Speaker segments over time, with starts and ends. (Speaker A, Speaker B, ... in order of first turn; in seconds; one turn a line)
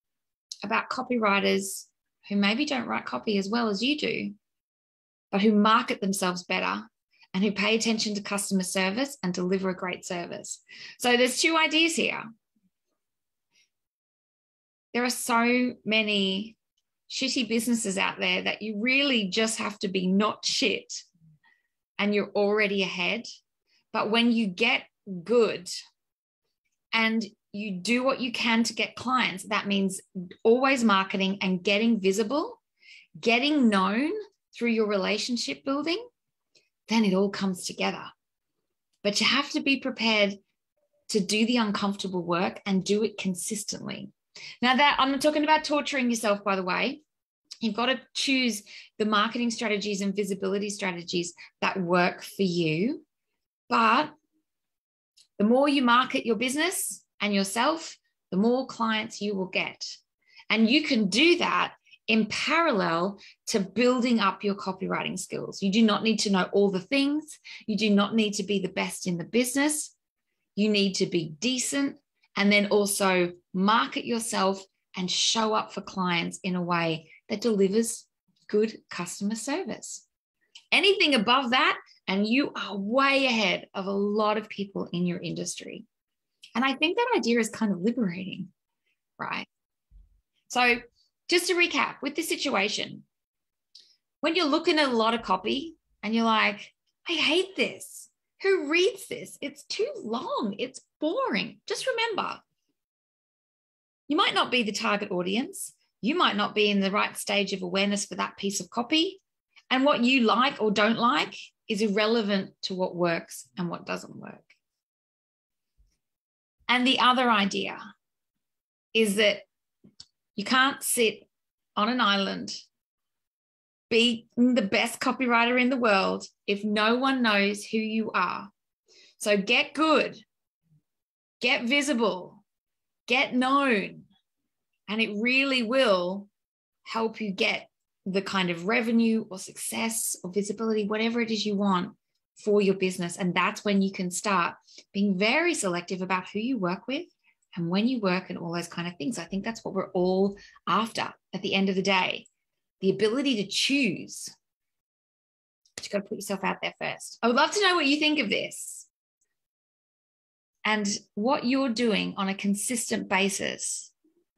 Speaker A: 0.6-4.3
Speaker A: 5.3-12.2
Speaker A: 14.9-16.6
Speaker A: 17.1-21.0
Speaker A: 22.0-23.2
Speaker A: 23.9-25.7
Speaker A: 26.9-32.6
Speaker A: 33.2-36.0
Speaker A: 36.9-38.1
Speaker A: 39.0-40.4
Speaker A: 41.1-47.0
Speaker A: 47.6-53.0
Speaker A: 53.7-54.1
Speaker A: 55.4-60.0
Speaker A: 60.5-69.9
Speaker A: 70.5-80.0
Speaker A: 80.7-85.8
Speaker A: 86.5-88.5
Speaker A: 89.2-89.5
Speaker A: 90.5-93.0
Speaker A: 94.2-102.4
Speaker A: 104.1-109.2
Speaker A: 109.7-114.5
Speaker A: 116.7-117.8
Speaker A: 118.9-119.5
Speaker A: 120.3-122.6
Speaker A: 123.9-128.5
Speaker A: 129.2-130.2
Speaker A: 131.4-132.4
Speaker A: 133.1-134.1
Speaker A: 134.9-136.3
Speaker A: 136.8-152.2
Speaker A: 152.8-154.3
Speaker A: 155.8-158.9
Speaker A: 160.6-163.9